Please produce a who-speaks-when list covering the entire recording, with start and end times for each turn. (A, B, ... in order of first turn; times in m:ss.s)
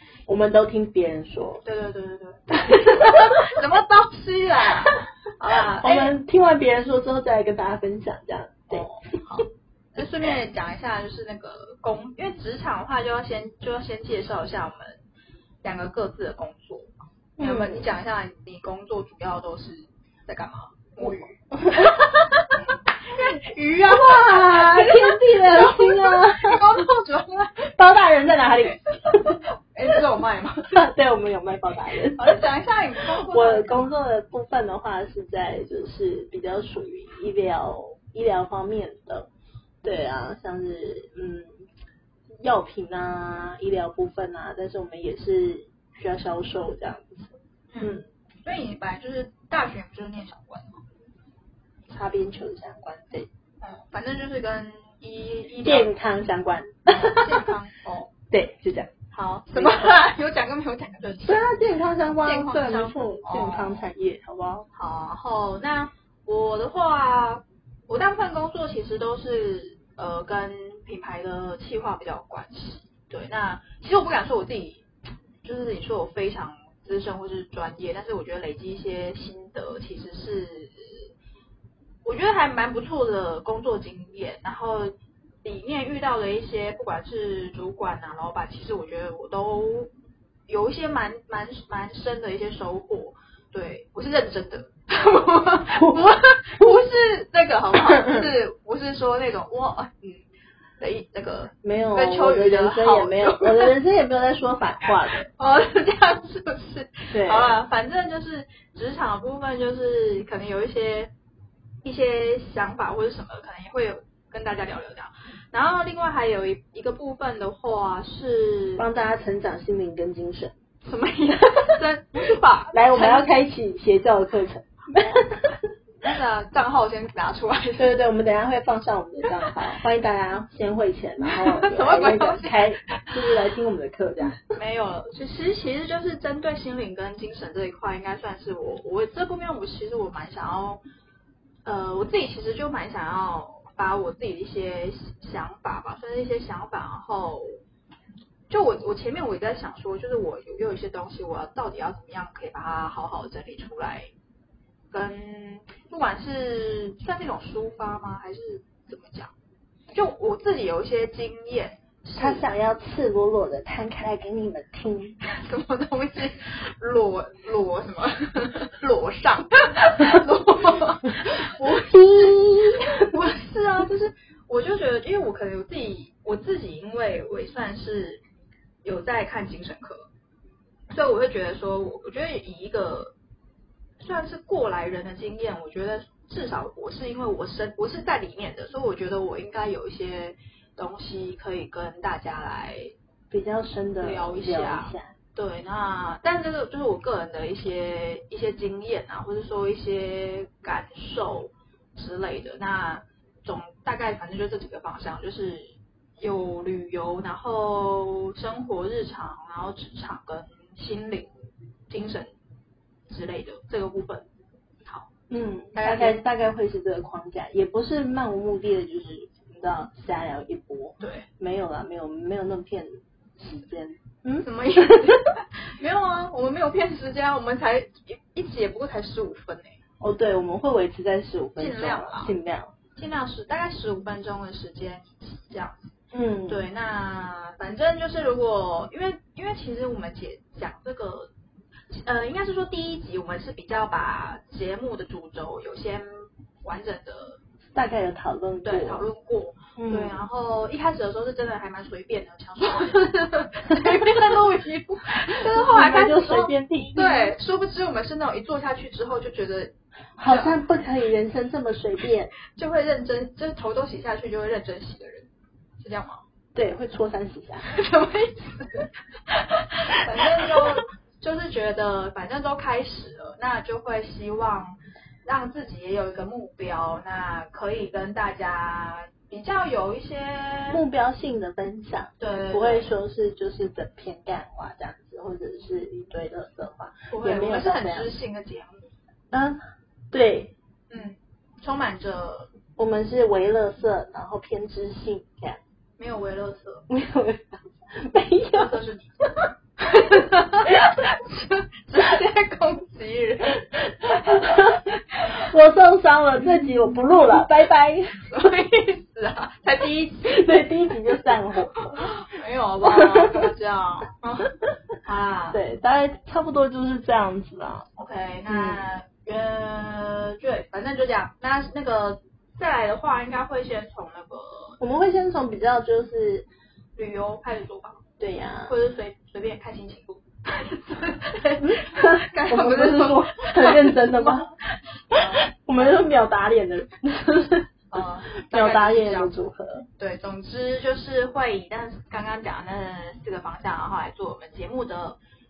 0:00.3-0:01.6 A
0:01.6-0:06.1 B
0:02.6-0:03.3 A
0:05.8-0:08.9 A
0:08.7-0:15.0 B
0:15.6-0:27.7 B
0:17.4-0:17.8 A
0:21.0-0:22.0 A
0:23.8-0:26.7 A
0:27.8-0:29.4 A
0:28.6-0:30.8 B
0:30.7-0:32.5 A
0:32.2-0:33.9 B
0:33.1-0:39.3 A
0:39.8-0:41.6 A
0:42.4-0:48.0 A
0:47.7-0:50.8 B
0:51.9-0:53.3 A
0:53.6-0:55.9 B
0:55.6-0:57.5 A
0:56.9-0:58.1 B
0:58.3-0:58.9 A
0:59.1-1:01.5 B
1:01.2-1:04.6 A
1:02.2-1:03.8 B
1:04.7-1:14.8 B
1:15.4-1:21.1 B
1:22.0-1:29.9 B
1:30.5-1:40.2 B
1:40.8-1:43.7 B
1:41.6-1:45.2 A
1:45.2-1:51.1 B
1:47.1-1:47.6 A
1:51.8-1:58.8 B
1:58.8-2:00.5 A
2:00.8-2:03.3 B
2:02.7-2:05.5 A
2:06.0-2:07.9 B
2:07.8-2:14.4 A
2:11.3-2:13.1 B
2:14.6-2:20.8 B
2:21.6-2:27.5 B
2:28.5-2:34.1 B
2:34.9-2:39.3 B
2:39.9-2:42.5 B
2:42.2-2:45.2 A
2:45.2-2:51.8 B
2:51.6-2:53.1 A
2:53.0-2:58.2 B
2:58.8-3:00.1 B
3:00.9-3:03.1 B
3:04.0-3:12.9 B
3:13.3-3:15.1 A
3:14.0-3:31.3 B
3:31.9-3:32.3 B
3:33.1-3:34.3 B
3:35.3-3:45.1 A
3:35.7-3:36.2 B
3:41.0-3:41.3 B
3:44.4-3:49.8 B
3:50.0-3:52.7 A
3:51.6-3:52.3 B
3:53.0-3:55.9 B
3:56.1-3:56.6 A
3:56.5-4:01.3 B
4:01.9-4:07.4 B
4:07.7-4:09.0 A
4:08.6-4:19.7 B
4:09.8-4:10.2 A
4:15.4-4:17.3 A
4:20.2-4:22.3 A
4:20.2-4:20.6 B
4:22.5-4:25.3 B
4:25.8-4:26.2 B
4:26.5-4:27.7 A
4:27.6-4:40.8 B
4:40.7-4:48.1 A
4:42.2-4:42.9 B
4:47.1-4:48.8 B
4:49.3-4:50.5 A
4:50.9-4:52.5 B
4:52.8-4:55.6 A
4:56.0-4:56.8 B
4:56.9-4:58.8 A
4:58.6-5:05.3 B
5:04.1-5:04.8 A
5:05.3-5:08.3 A
5:08.2-5:10.4 B
5:10.2-5:12.1 A
5:11.9-5:15.6 B
5:13.0-5:13.4 A
5:15.5-5:17.9 A
5:18.0-5:24.8 B
5:18.5-5:18.8 A
5:24.8-5:26.5 A
5:27.0-5:28.0 B
5:28.2-5:28.7 A
5:28.7-5:34.5 B
5:31.6-5:34.5 A
5:35.1-5:36.0 B
5:35.1-5:37.8 A
5:37.9-5:39.4 B
5:38.4-5:39.9 A
5:40.0-5:45.2 B